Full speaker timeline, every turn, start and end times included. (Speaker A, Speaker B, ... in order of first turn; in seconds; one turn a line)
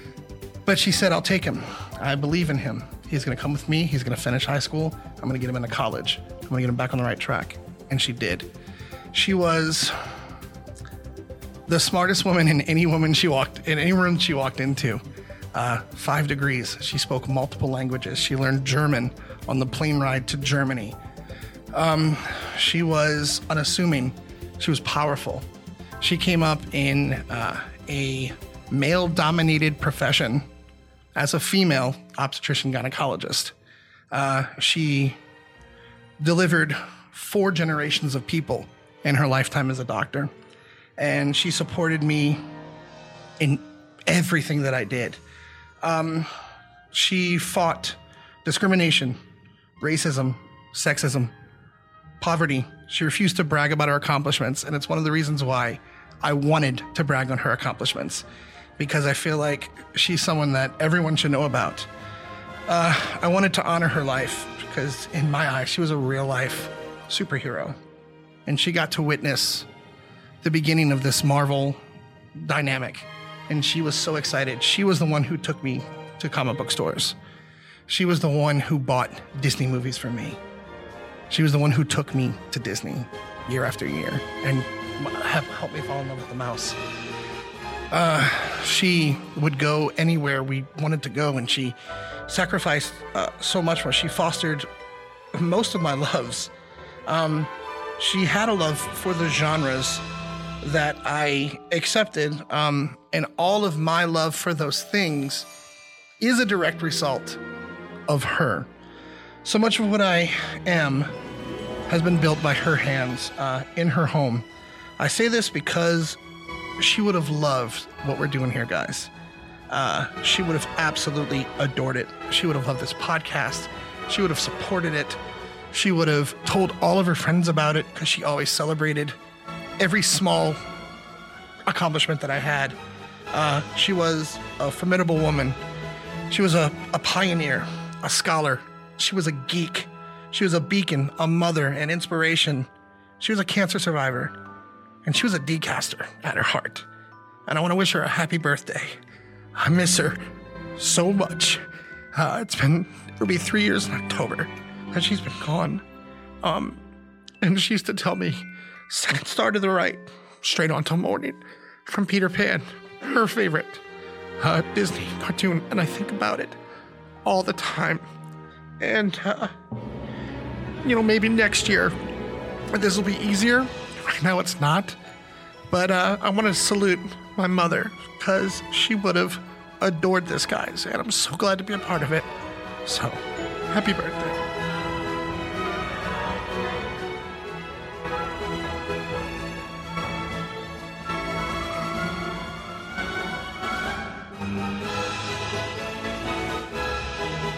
Speaker A: 0.7-8.5
Speaker A: 9.1-10.1
Speaker A: 11.7-15.0
Speaker A: 15.5-21.0
Speaker A: 21.7-25.5
Speaker A: 26.0-30.5
Speaker A: 31.2-33.5
Speaker A: 34.1-35.2
Speaker A: 36.2-40.3
Speaker A: 41.0-42.4
Speaker A: 43.4-45.2
Speaker A: 45.8-46.3
Speaker A: 46.9-49.2
Speaker A: 49.8-51.3
Speaker A: 52.2-58.2
Speaker A: 58.8-61.9
Speaker A: 62.7-67.8
Speaker A: 68.5-69.7
Speaker A: 70.4-71.8
Speaker A: 72.3-77.2
Speaker A: 77.9-80.4
Speaker A: 81.3-86.8
Speaker A: 87.9-91.8
Speaker A: 92.3-94.7
Speaker A: 95.3-96.5
Speaker A: 97.1-100.0
Speaker A: 100.6-105.5
Speaker A: 106.2-107.4
Speaker A: 108.1-108.7
Speaker A: 109.4-111.1
Speaker A: 111.9-114.5
Speaker A: 115.0-116.2
Speaker A: 116.8-119.1
Speaker A: 119.7-125.2
Speaker A: 125.7-129.2
Speaker A: 129.8-130.6
Speaker A: 131.7-132.8
Speaker A: 133.3-135.6
Speaker A: 136.3-142.7
Speaker A: 143.2-144.4
Speaker A: 145.1-146.9
Speaker A: 147.5-149.0
Speaker A: 149.6-150.2
Speaker A: 150.8-151.6
Speaker A: 152.1-155.8
Speaker A: 156.4-156.8
Speaker A: 157.4-163.8
Speaker A: 164.4-166.6
Speaker A: 167.2-168.1
Speaker A: 168.8-169.5
Speaker A: 170.8-171.9
Speaker A: 172.7-175.0
Speaker A: 175.7-182.3
Speaker A: 182.8-184.4